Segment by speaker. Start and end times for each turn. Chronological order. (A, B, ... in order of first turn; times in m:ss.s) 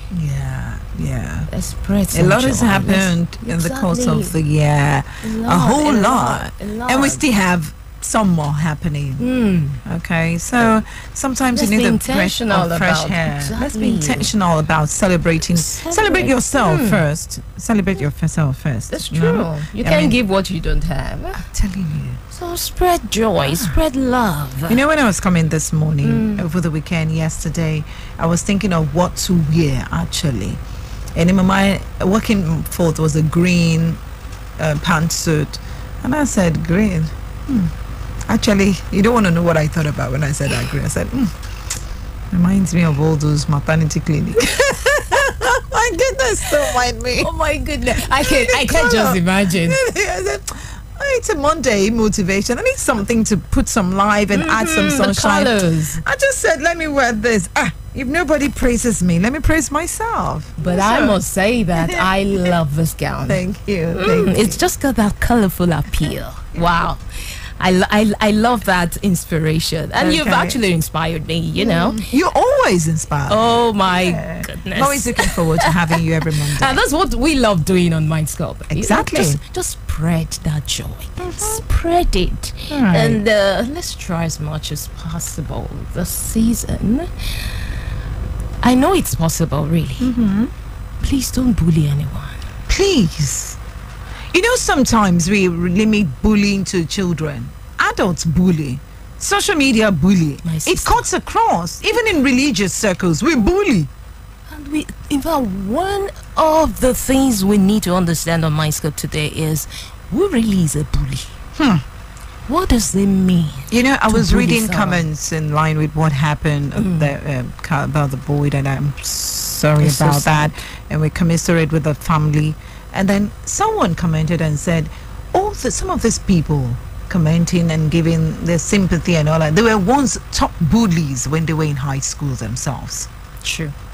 0:00.1-0:01.5 A
0:01.5-0:04.4 B
0:02.1-0:09.3 A
0:05.2-0:07.2 B
0:09.2-0:09.8 B
0:09.8-0:20.2 A
0:11.5-0:14.3 B
0:15.6-0:17.0 B
0:18.9-0:21.5 B
0:21.5-0:22.2 A
0:22.3-0:24.8 B
0:23.4-0:23.8 A
0:24.7-0:30.6 A
0:26.0-0:26.5 B
0:31.2-0:34.0 A
0:34.6-0:37.7 A
0:38.3-0:41.4 A
0:42.3-0:47.3 A
0:47.2-0:49.8 B
0:48.0-1:01.2 A
0:54.3-0:56.0 B
1:00.6-1:12.0 B
1:01.8-1:02.5 A
1:03.3-1:04.6 A
1:10.0-1:10.6 A
1:11.6-1:16.8 A
1:13.3-1:27.6 B
1:18.7-1:19.4 A
1:21.2-1:21.6 A
1:22.7-1:23.2 A
1:28.6-1:30.1 B
1:30.0-1:30.5 A
1:31.0-1:32.4 B
1:32.7-1:33.6 A
1:34.3-1:43.9 A
1:40.4-1:41.0 B
1:44.5-1:51.4 B
1:51.6-1:51.8 A
1:52.5-1:55.1 B
1:53.7-2:13.1 A
1:56.8-1:57.1 B
1:59.8-2:00.5 B
2:13.4-2:13.8 B